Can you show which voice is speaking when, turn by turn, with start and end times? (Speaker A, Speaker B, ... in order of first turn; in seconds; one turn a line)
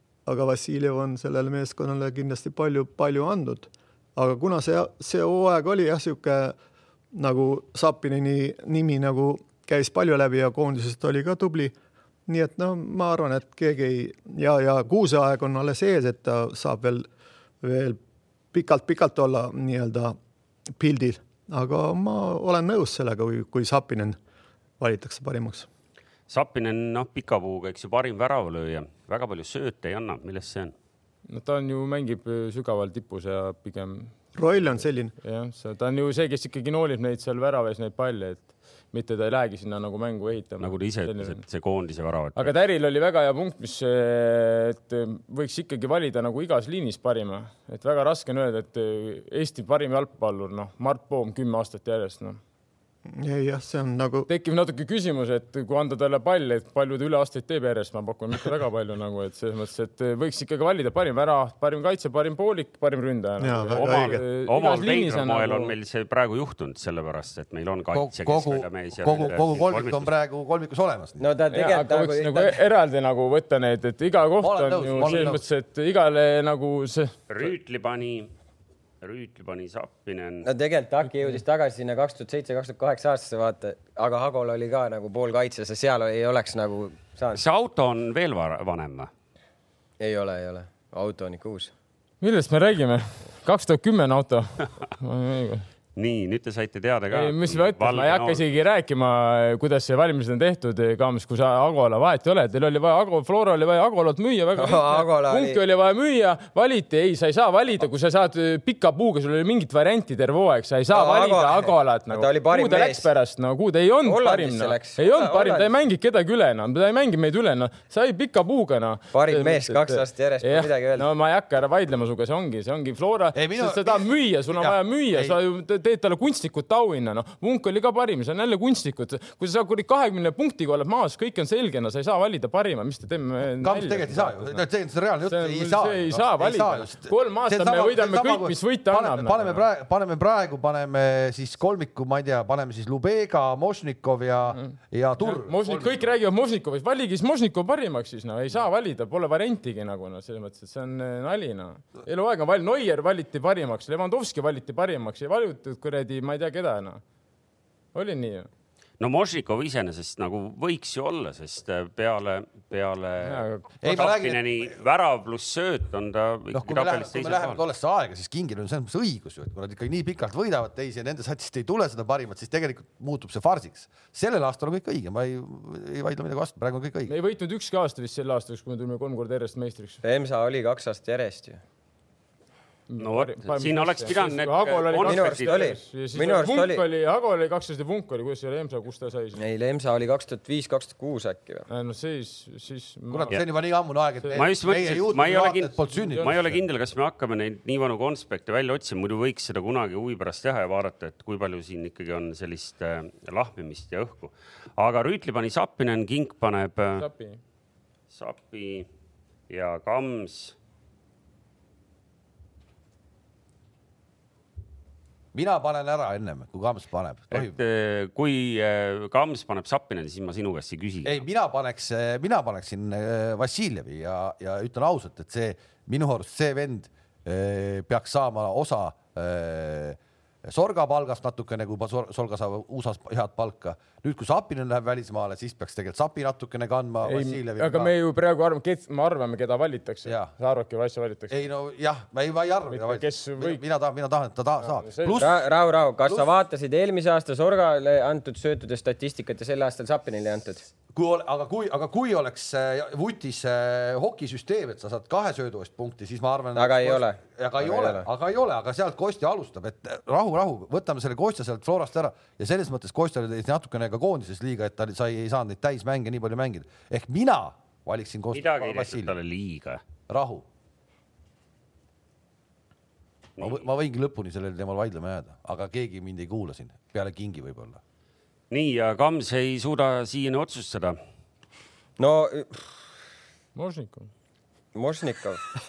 Speaker A: 0.2-6.5
Speaker A: 7.1-11.8
Speaker A: 12.3-17.1
Speaker A: 17.6-18.0
Speaker A: 18.5-20.1
Speaker A: 20.8-24.2
Speaker A: 24.8-25.7
Speaker B: 26.3-30.7
Speaker C: 31.3-34.1
Speaker A: 34.3-35.1
Speaker C: 35.2-41.4
Speaker B: 40.6-42.5
Speaker C: 42.4-52.4
Speaker A: 53.1-54.3
Speaker C: 54.3-65.7
Speaker A: 63.4-64.2
Speaker B: 63.7-70.1
Speaker D: 67.9-71.2
Speaker E: 71.2-72.6
Speaker C: 71.5-77.2
Speaker D: 74.4-75.4
Speaker B: 77.3-78.3
Speaker B: 79.0-80.5
Speaker E: 80.4-87.4
Speaker B: 87.3-89.1
Speaker E: 90.0-91.7
Speaker C: 92.2-95.7
Speaker B: 96.0-98.4
Speaker C: 97.1-134.6
Speaker E: 104.6-105.6
Speaker E: 110.9-113.1
Speaker E: 114.0-115.7
Speaker E: 119.1-121.1
Speaker D: 123.3-125.4
Speaker D: 133.6-146.1
Speaker C: 135.2-139.6
Speaker C: 144.5-157.0
Speaker C: 157.9-158.5
Speaker B: 159.0-167.6
Speaker C: 163.2-163.7
Speaker D: 163.8-164.7
Speaker D: 166.5-177.1
Speaker C: 177.1-180.0
Speaker E: 180.0-181.6
Speaker C: 182.9-189.4
Speaker B: 183.0-185.7
Speaker E: 185.0-186.8
Speaker E: 189.3-191.7
Speaker C: 191.7-193.4
Speaker D: 193.1-196.6
Speaker B: 194.3-207.0
Speaker C: 195.9-196.3
Speaker C: 207.0-207.4
Speaker B: 208.1-208.9
Speaker B: 209.5-210.5
Speaker D: 215.3-217.6
Speaker B: 217.3-221.2
Speaker D: 221.0-237.9
Speaker C: 237.0-241.3
Speaker D: 241.3-245.4
Speaker C: 242.7-243.6
Speaker C: 244.6-245.2
Speaker E: 245.2-250.7
Speaker D: 250.9-269.1
Speaker E: 256.6-258.1
Speaker B: 268.3-269.8
Speaker D: 270.1-270.4
Speaker B: 273.4-273.6
Speaker D: 273.4-277.8
Speaker B: 278.5-281.0
Speaker E: 282.0-282.8
Speaker C: 283.5-284.1
Speaker E: 284.7-285.4